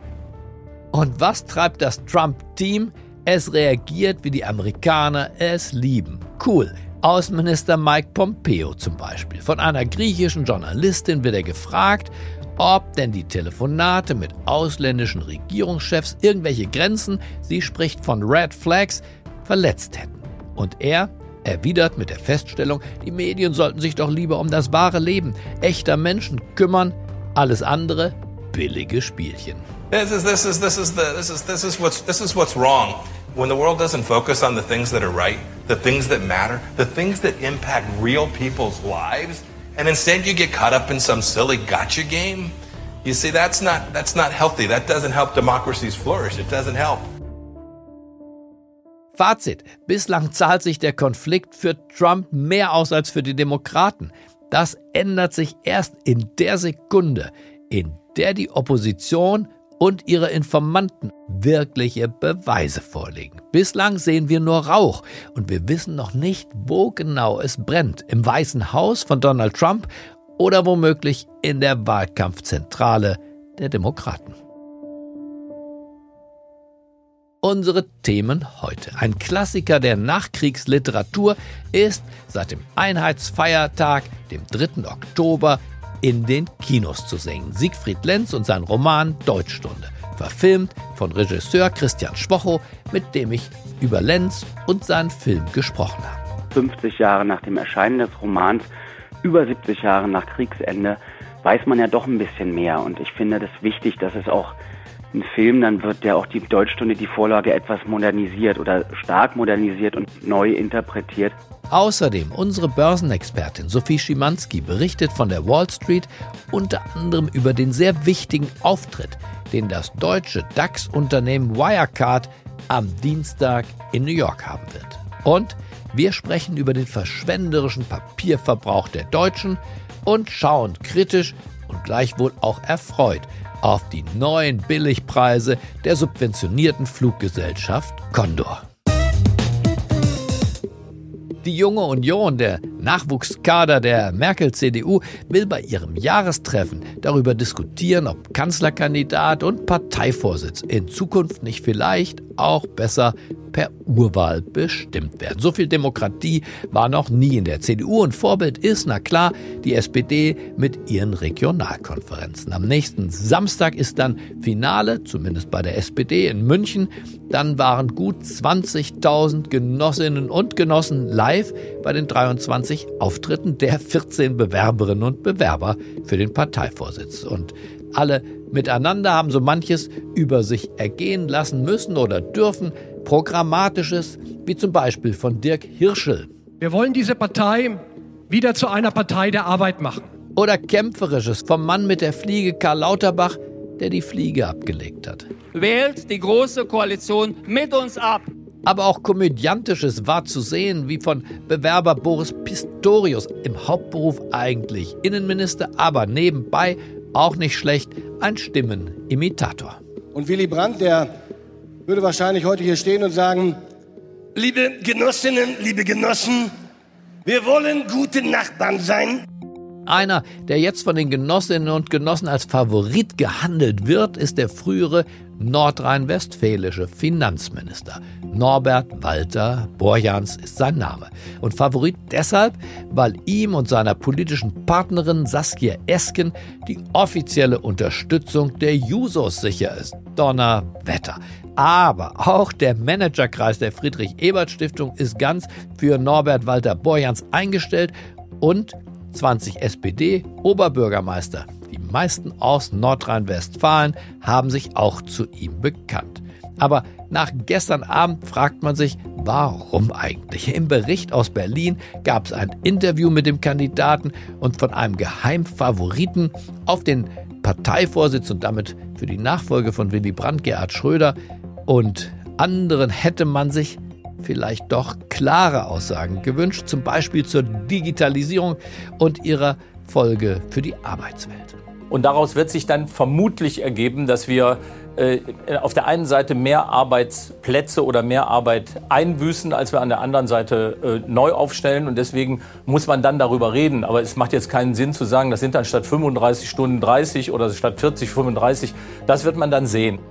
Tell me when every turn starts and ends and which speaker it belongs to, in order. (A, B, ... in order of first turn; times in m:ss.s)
0:00.9-0:29.6 A
0:29.9-0:42.5 B
0:43.0-0:47.0 B
0:49.1-1:14.4 A
1:17.4-1:36.2 A
1:36.5-1:38.6 C
1:39.2-1:44.6 C
1:45.1-1:51.4 C
1:51.7-2:18.6 A
2:21.4-3:06.3 A
3:06.6-3:10.1 D
3:10.4-3:15.3 A
3:15.5-3:18.2 E
3:18.6-3:29.8 A
3:30.1-3:31.1 F
3:31.8-3:33.6 F
3:34.3-3:36.5 F
3:37.2-3:39.2 F
3:39.8-4:41.6 A
4:41.9-5:00.0 G